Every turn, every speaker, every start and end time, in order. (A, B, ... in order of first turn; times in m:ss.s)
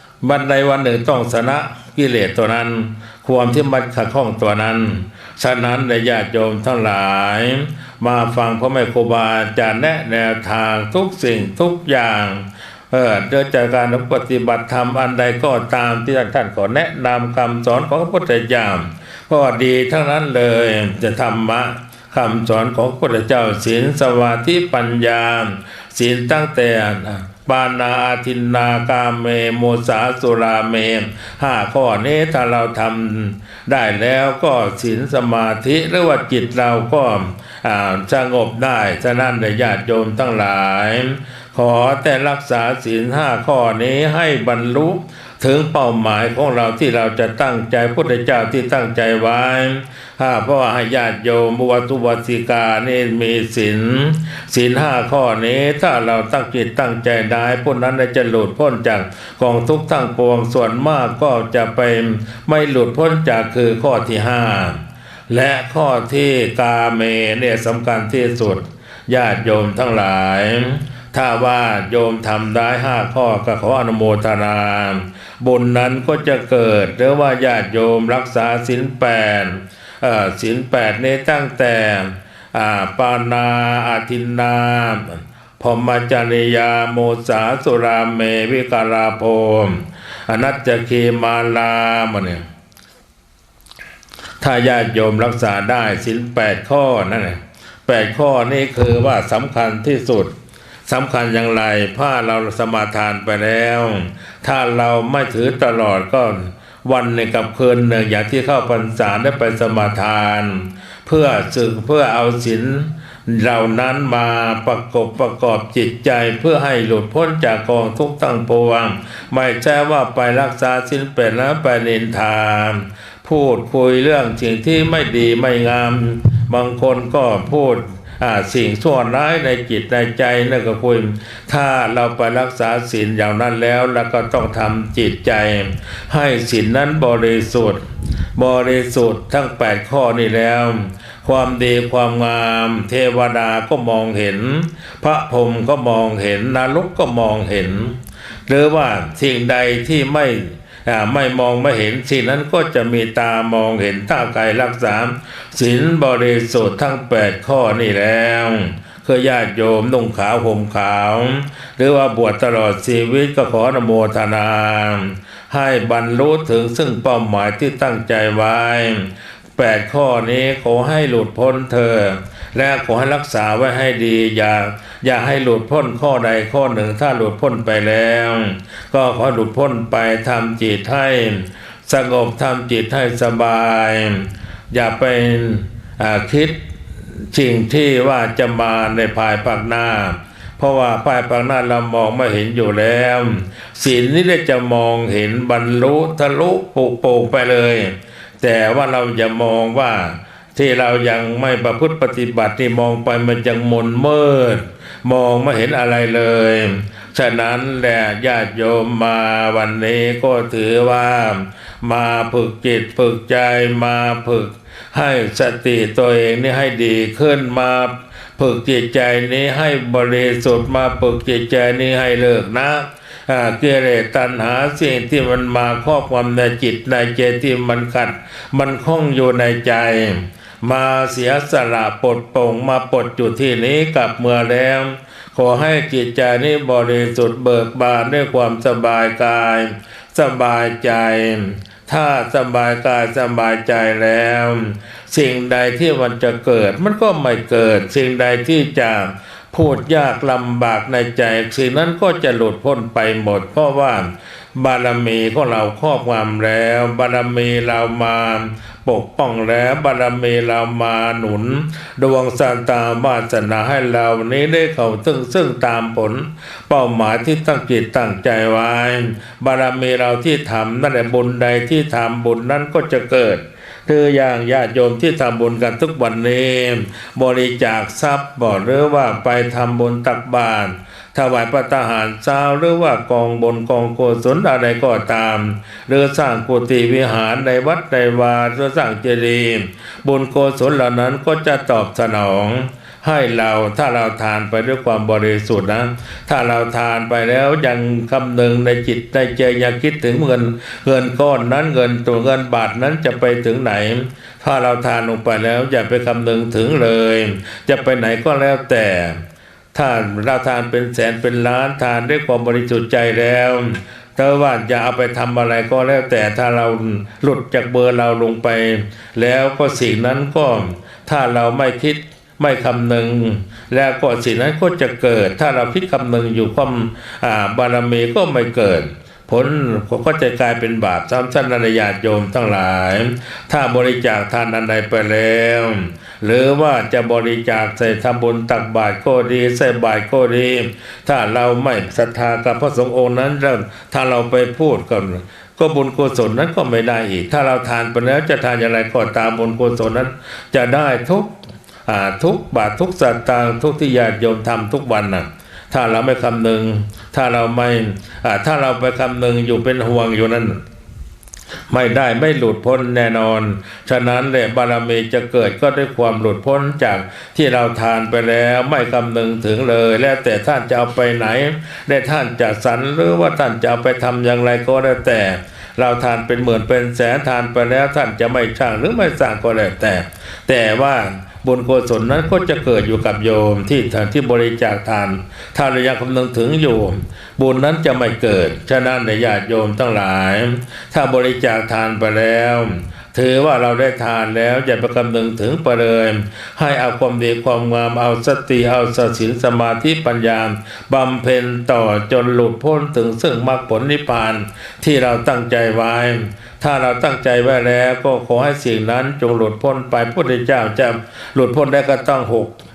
0:00.2-1:32.4 A
1:34.4-1:40.3 A
1:40.9-2:17.8 A
2:18.4-3:06.6 A
3:07.3-5:09.2 A
5:09.7-5:51.4 A
5:51.9-6:00.6 A
6:01.7-6:52.6 A